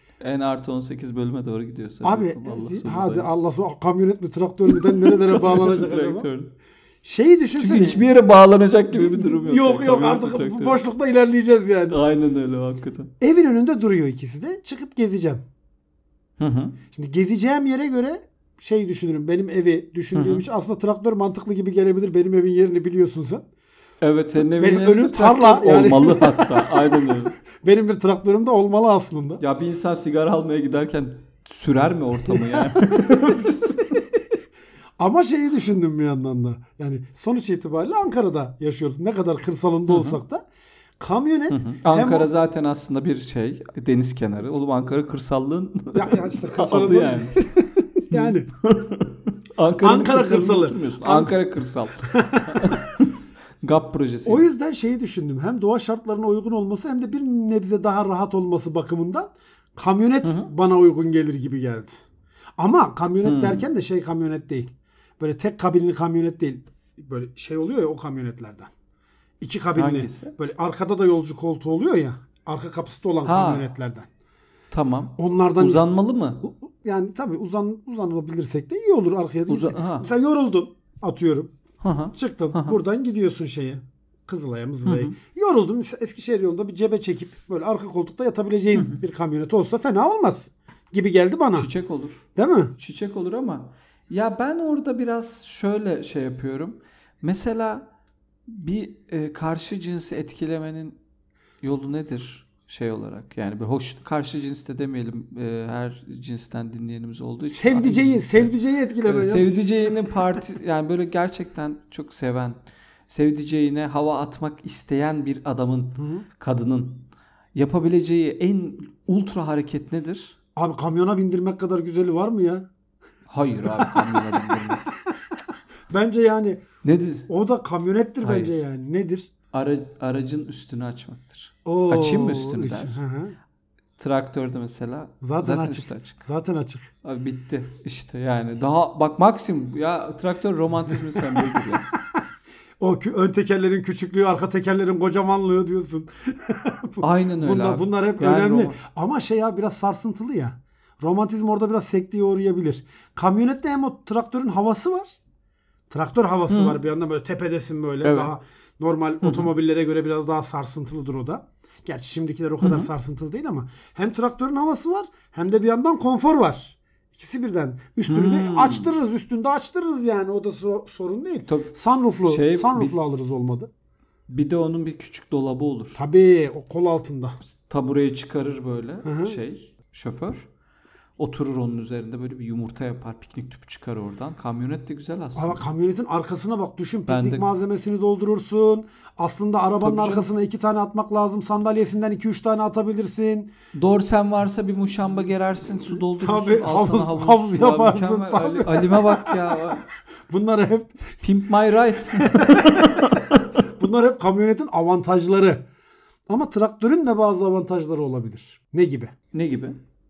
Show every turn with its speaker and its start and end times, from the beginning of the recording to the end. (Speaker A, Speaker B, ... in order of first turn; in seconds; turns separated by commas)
Speaker A: 0.2-3.4, Speaker B: 2.0-6.3, Speaker A: 4.7-6.5, Speaker B: 7.0-8.1, Speaker A: 7.6-10.8, Speaker B: 8.9-12.0, Speaker A: 11.9-13.1, Speaker B: 13.2-15.4, Speaker A: 16.4-16.8, Speaker B: 16.9-23.4, Speaker A: 20.1-20.5, Speaker A: 24.0-27.4, Speaker B: 24.6-29.4, Speaker A: 29.4-34.0, Speaker B: 32.3-33.5, Speaker B: 35.0-40.4, Speaker A: 39.9-40.2, Speaker B: 41.0-42.3, Speaker A: 41.5-54.5, Speaker B: 45.9-48.5, Speaker B: 49.8-51.4, Speaker B: 52.0-53.0, Speaker B: 54.2-62.1, Speaker A: 60.2-60.5, Speaker B: 62.6-68.7, Speaker A: 63.2-63.7, Speaker B: 69.4-74.1, Speaker A: 69.8-70.3, Speaker A: 73.2-73.7, Speaker A: 74.7-76.4, Speaker B: 75.2-75.9, Speaker B: 76.4-81.5, Speaker A: 79.5-80.1, Speaker A: 81.8-82.8, Speaker B: 82.1-91.7, Speaker A: 84.8-85.1, Speaker A: 88.7-89.0, Speaker A: 91.5-92.2, Speaker B: 92.3-92.8, Speaker A: 92.8-97.9, Speaker A: 98.5-101.0, Speaker A: 101.6-108.5, Speaker B: 107.5-109.9, Speaker A: 109.0-120.3, Speaker B: 116.0-116.2, Speaker B: 120.6-122.7, Speaker A: 123.3-124.8, Speaker B: 123.7-124.7, Speaker B: 125.9-126.6, Speaker A: 126.8-127.3, Speaker B: 127.3-129.3, Speaker A: 128.2-128.6, Speaker A: 129.5-133.0, Speaker B: 131.7-133.4, Speaker A: 134.0-136.2, Speaker B: 135.2-136.9, Speaker A: 137.0-141.8, Speaker B: 142.8-155.2, Speaker A: 147.0-148.8, Speaker B: 155.9-173.7, Speaker A: 156.5-156.8, Speaker A: 158.0-158.3, Speaker A: 159.2-159.5, Speaker A: 162.6-162.9, Speaker A: 168.1-168.9, Speaker A: 171.5-171.7, Speaker A: 172.2-173.0, Speaker A: 174.3-176.0, Speaker B: 175.9-177.4, Speaker A: 177.4-180.5, Speaker B: 179.0-179.4, Speaker A: 181.2-185.6, Speaker B: 185.3-193.5, Speaker A: 187.1-187.4, Speaker A: 189.8-190.3, Speaker A: 193.7-199.8, Speaker B: 196.1-199.7, Speaker B: 200.3-201.2, Speaker A: 201.2-203.6, Speaker B: 202.0-205.6, Speaker B: 206.3-209.1, Speaker A: 209.3-209.8